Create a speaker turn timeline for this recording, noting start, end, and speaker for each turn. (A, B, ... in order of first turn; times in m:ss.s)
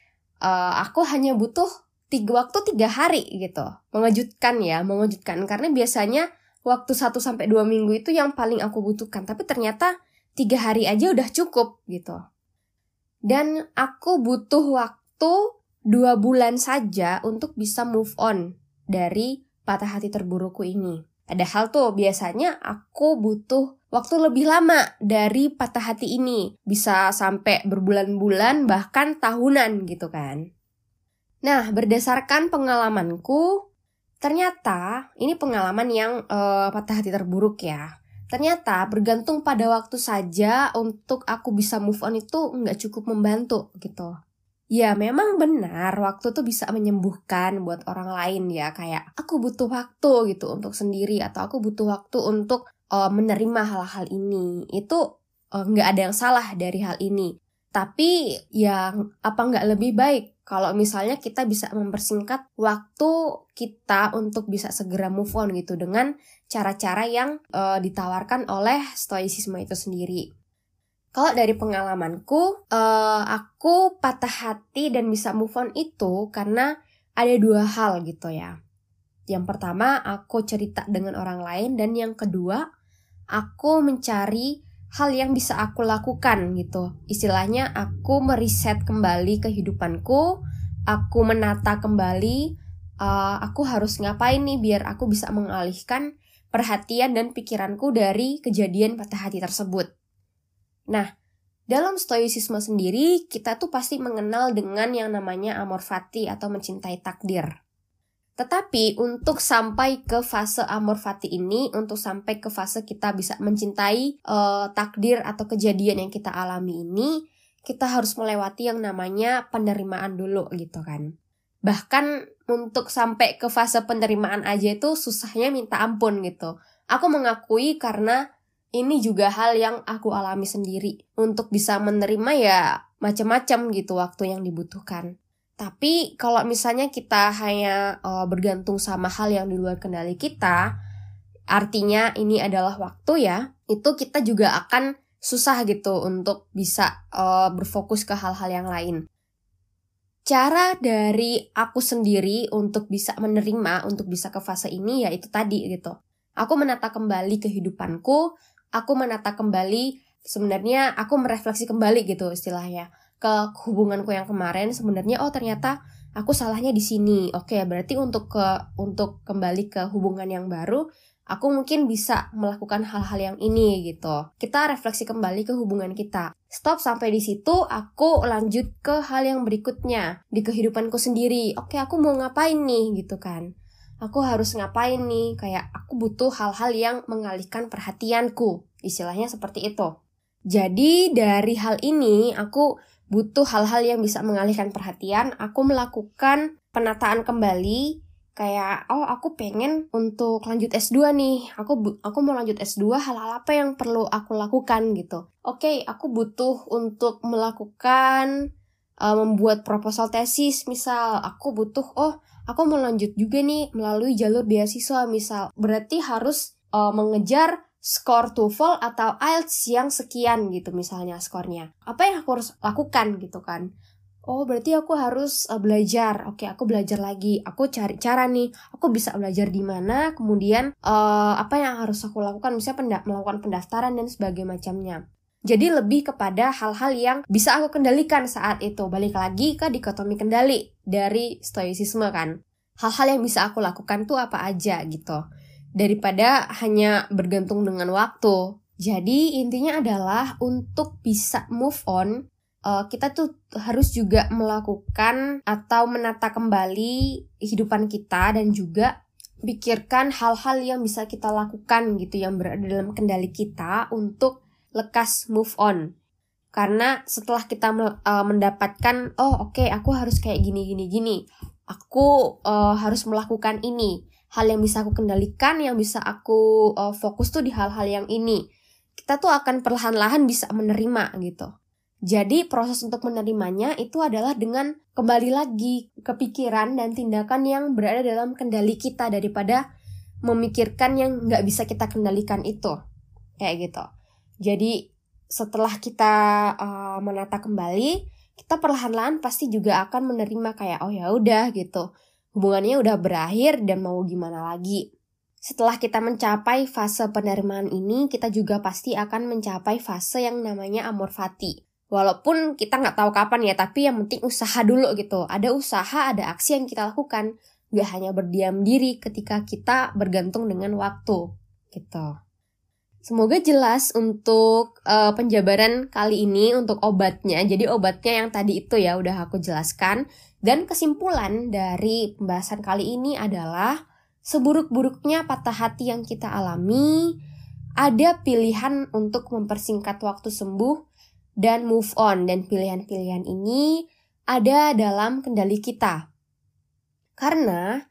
0:00.4-0:12.2 A
0:13.3-0:15.4 A
0:15.9-0:18.4 A
0:18.9-0:30.4 A
0:31.4-0:33.5 A
0:34.2-0:44.1 A
0:44.8-0:55.0 A
0:55.6-0:58.1 A
0:58.6-1:10.2 A
1:11.2-1:16.6 A
1:17.2-1:18.5 A
1:19.3-1:22.6 A
1:23.4-1:30.3 A
1:30.9-1:32.4 A
1:33.0-1:39.9 A
1:41.7-1:47.5 A
1:48.4-1:57.1 A
1:57.7-2:01.0 A
2:01.7-2:08.2 A
2:08.8-2:15.1 A
2:15.6-2:20.6 A
2:21.5-2:29.0 A
2:30.3-2:38.2 A
2:38.8-2:50.8 A
2:51.3-3:03.4 A
3:04.0-3:09.9 A
3:10.5-3:17.8 A
3:18.4-3:28.3 A
3:29.0-3:43.6 A
3:44.3-4:05.2 A
4:05.8-4:12.2 A
4:12.7-4:18.9 A
4:19.5-4:25.8 A
4:26.6-4:31.2 A
4:31.7-4:38.4 A
4:39.0-4:41.5 A
4:42.1-4:49.6 A
4:50.3-4:52.7 A
4:53.4-4:53.8 A
4:54.4-4:54.7 A
4:55.3-5:01.8 A
5:02.4-5:04.8 A
5:05.5-5:21.2 A
5:21.7-5:22.1 A
5:23.1-5:33.7 A
5:34.3-5:37.0 A
5:37.8-5:40.8 A
5:41.4-5:43.6 A
5:44.3-5:46.0 A
5:47.2-5:47.6 A